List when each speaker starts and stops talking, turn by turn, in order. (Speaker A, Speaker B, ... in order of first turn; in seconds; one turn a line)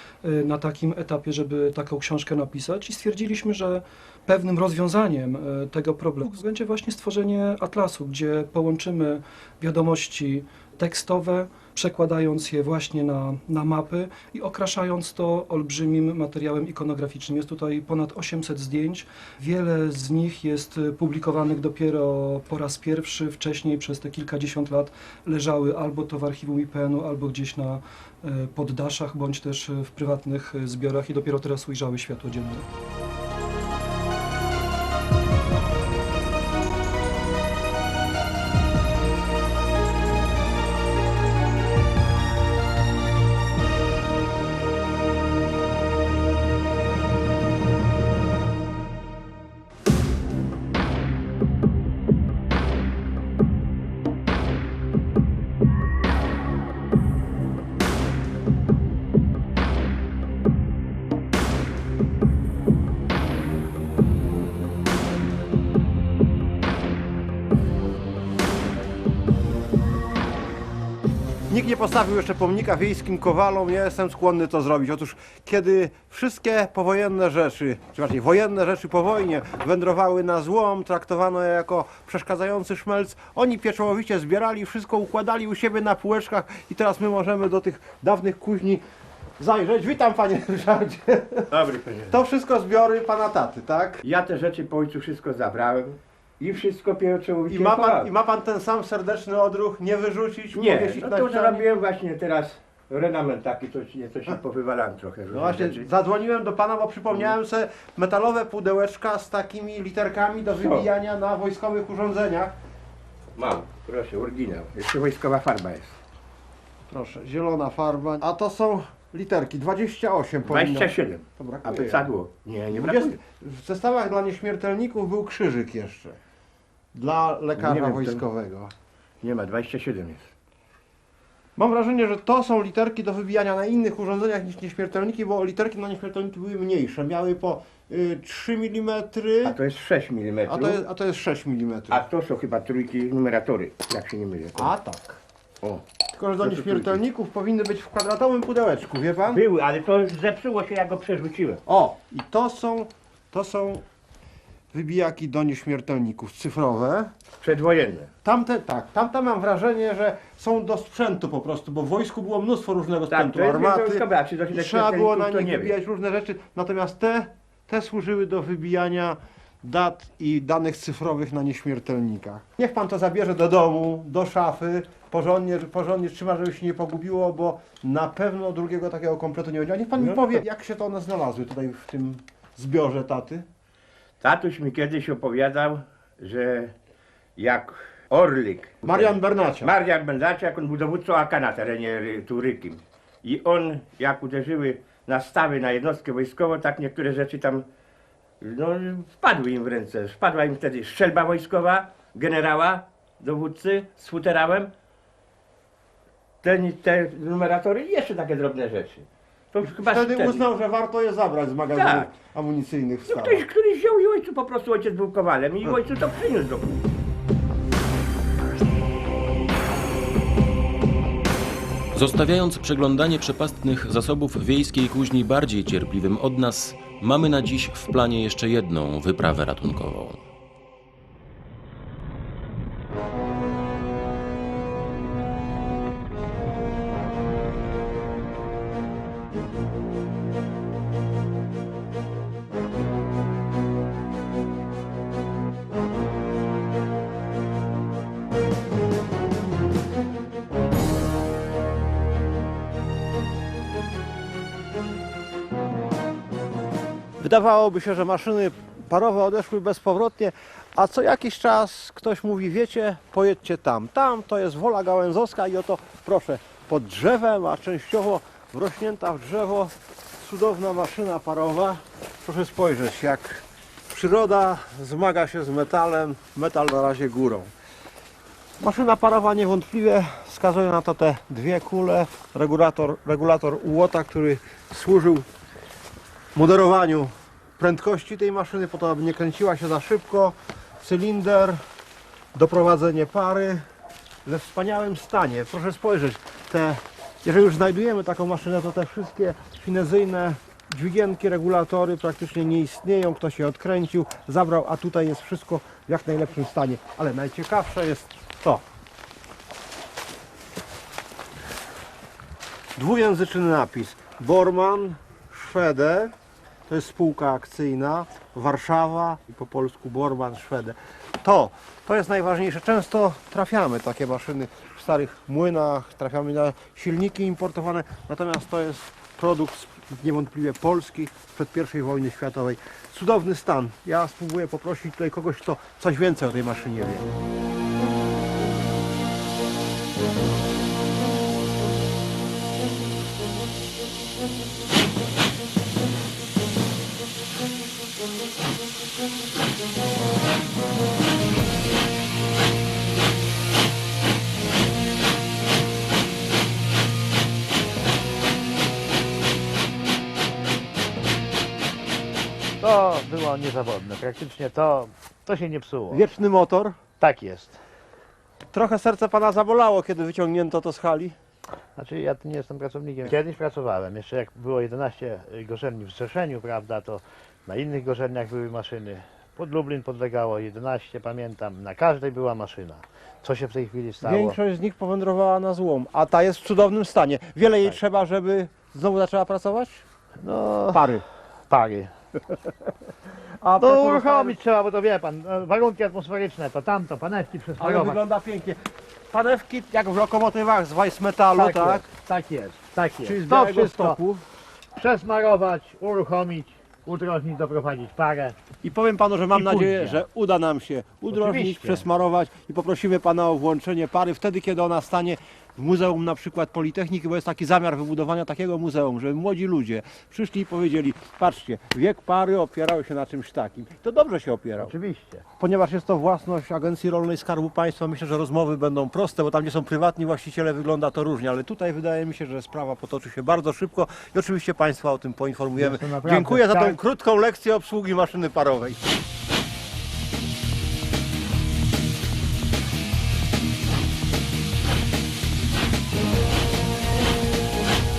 Speaker A: 0.2-32.7
Speaker B: 71.5-88.8
Speaker B: 89.4-91.5
Speaker C: 91.5-92.2
Speaker B: 92.1-94.0
Speaker C: 94.0-98.1
Speaker B: 97.5-101.7
Speaker C: 100.5-105.9
Speaker B: 105.3-112.5
Speaker C: 110.6-110.9
Speaker C: 113.4-116.0
Speaker B: 116.9-122.1
Speaker C: 120.5-123.2
Speaker B: 122.7-126.2
Speaker B: 126.9-128.7
Speaker C: 127.6-128.3
Speaker C: 129.2-130.3
Speaker B: 131.6-139.6
Speaker C: 139.4-140.8
Speaker B: 140.5-142.1
Speaker C: 141.9-144.7
Speaker B: 144.6-145.2
Speaker B: 146.2-149.4
Speaker C: 146.4-147.0
Speaker C: 149.3-151.6
Speaker B: 151.7-153.8
Speaker B: 154.7-157.1
Speaker C: 157.4-158.1
Speaker B: 158.2-183.4
Speaker C: 163.1-165.7
Speaker C: 180.0-180.3
Speaker C: 184.2-186.7
Speaker C: 187.4-197.7
Speaker B: 188.8-189.7
Speaker C: 198.4-204.7
Speaker C: 206.4-210.5
Speaker B: 209.7-213.4
Speaker C: 211.7-212.1
Speaker C: 213.1-216.8
Speaker D: 221.9-230.2
Speaker B: 257.2-277.5
Speaker B: 278.6-285.3
Speaker B: 286.4-291.6
Speaker B: 292.3-293.6
Speaker B: 294.2-308.6
Speaker B: 312.8-316.1
Speaker B: 316.7-337.1
Speaker E: 362.6-366.1
Speaker B: 365.9-366.8
Speaker E: 367.0-367.6
Speaker B: 368.5-371.2
Speaker E: 371.8-384.4
Speaker B: 384.0-389.9
Speaker E: 390.2-390.9
Speaker B: 390.7-391.1
Speaker E: 391.5-391.9
Speaker B: 393.4-394.4
Speaker E: 393.6-398.0
Speaker B: 397.6-398.6
Speaker B: 399.1-401.9
Speaker E: 401.3-404.0
Speaker B: 403.0-404.2
Speaker E: 404.8-408.4
Speaker B: 408.6-424.7
Speaker E: 409.3-410.0
Speaker E: 411.1-411.9
Speaker E: 424.6-425.2
Speaker B: 425.4-438.8
Speaker E: 435.6-436.8